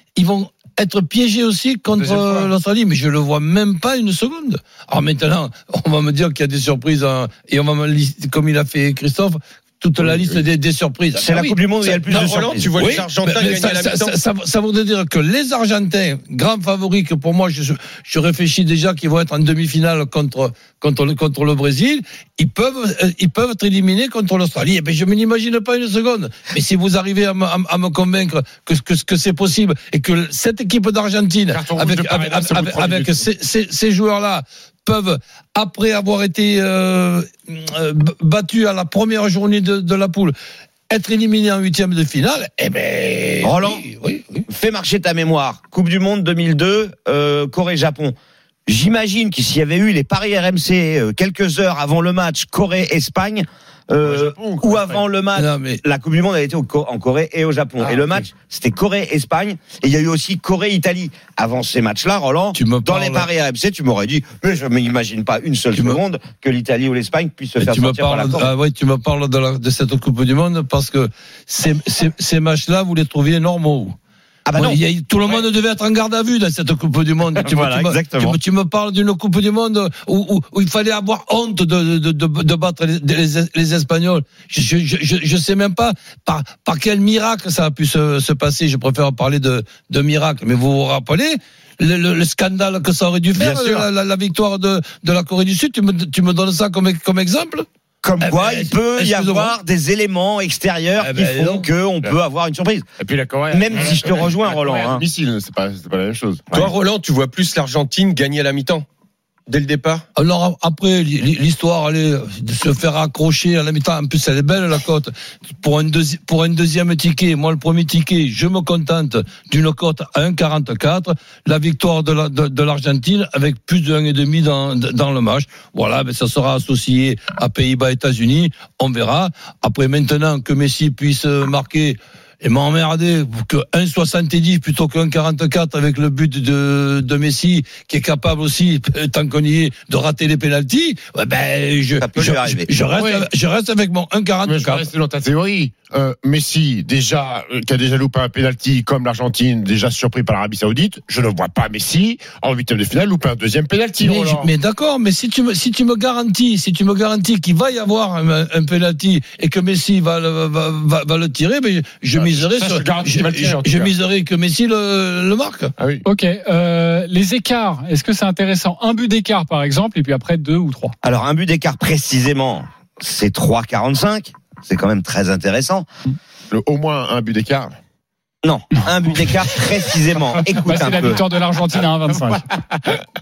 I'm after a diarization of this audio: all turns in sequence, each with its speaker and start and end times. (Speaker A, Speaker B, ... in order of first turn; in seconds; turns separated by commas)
Speaker A: 0.1-40.3, Speaker B: 1.9-2.5, Speaker B: 10.0-10.4, Speaker C: 11.2-12.7, Speaker D: 12.1-14.1, Speaker B: 31.5-33.2, Speaker A: 40.9-44.5, Speaker C: 43.4-43.8, Speaker C: 44.5-48.1, Speaker C: 48.7-68.5, Speaker B: 54.0-55.0, Speaker A: 55.3-55.8, Speaker B: 57.8-58.2, Speaker A: 62.5-63.3, Speaker A: 65.7-66.0, Speaker A: 67.6-74.0, Speaker C: 74.5-74.8, Speaker A: 74.5-97.7, Speaker C: 77.4-78.4, Speaker C: 98.0-102.8, Speaker A: 98.2-99.5, Speaker A: 101.0-101.7, Speaker B: 103.0-106.5, Speaker C: 103.5-105.0, Speaker D: 106.5-108.8, Speaker D: 109.5-110.0, Speaker A: 110.2-144.8, Speaker C: 142.0-142.7, Speaker B: 142.9-143.3, Speaker B: 144.4-154.5, Speaker A: 154.0-165.7, Speaker B: 162.1-163.9, Speaker B: 165.8-166.0, Speaker E: 166.0-170.9, Speaker C: 171.0-175.9, Speaker B: 176.5-177.8, Speaker C: 178.4-181.2, Speaker E: 180.6-182.5, Speaker B: 182.1-183.0